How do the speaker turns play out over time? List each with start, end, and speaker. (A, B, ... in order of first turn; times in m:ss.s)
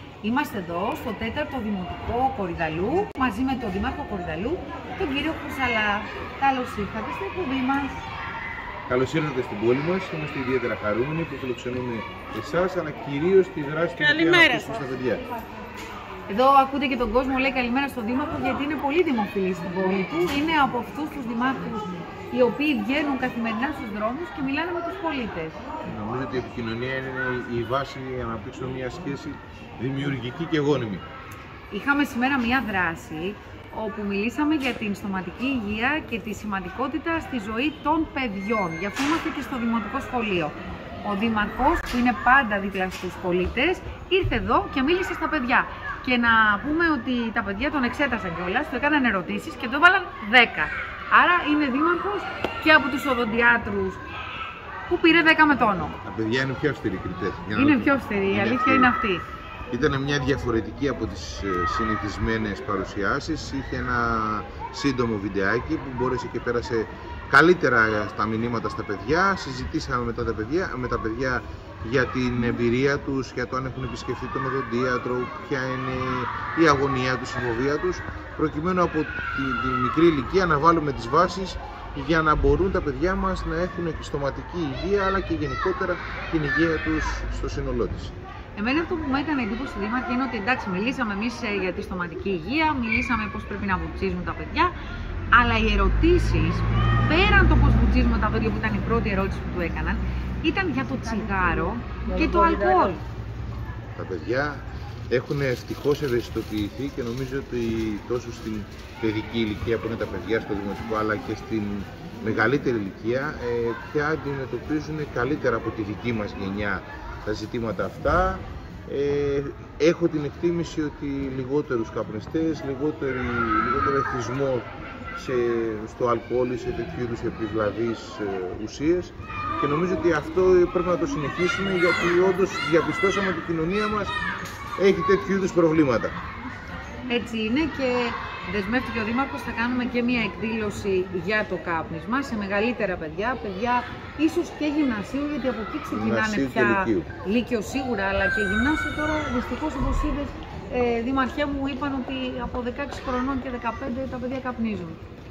0:00.2-0:08.0 A
0:08.9-0:15.2 B
0:16.3-0:25.6 A
0:25.8-0:31.0 B
0:31.7-0:54.0 A
0:54.9-0:56.0 A
0:56.0-0:58.9 B
0:57.5-0:59.2 A
0:59.7-1:28.1 B
1:28.6-1:34.7 A
1:35.3-1:43.0 A
1:43.9-2:14.1 B
2:14.8-2:16.2 B
2:17.1-2:35.0 A
2:25.9-2:27.1 B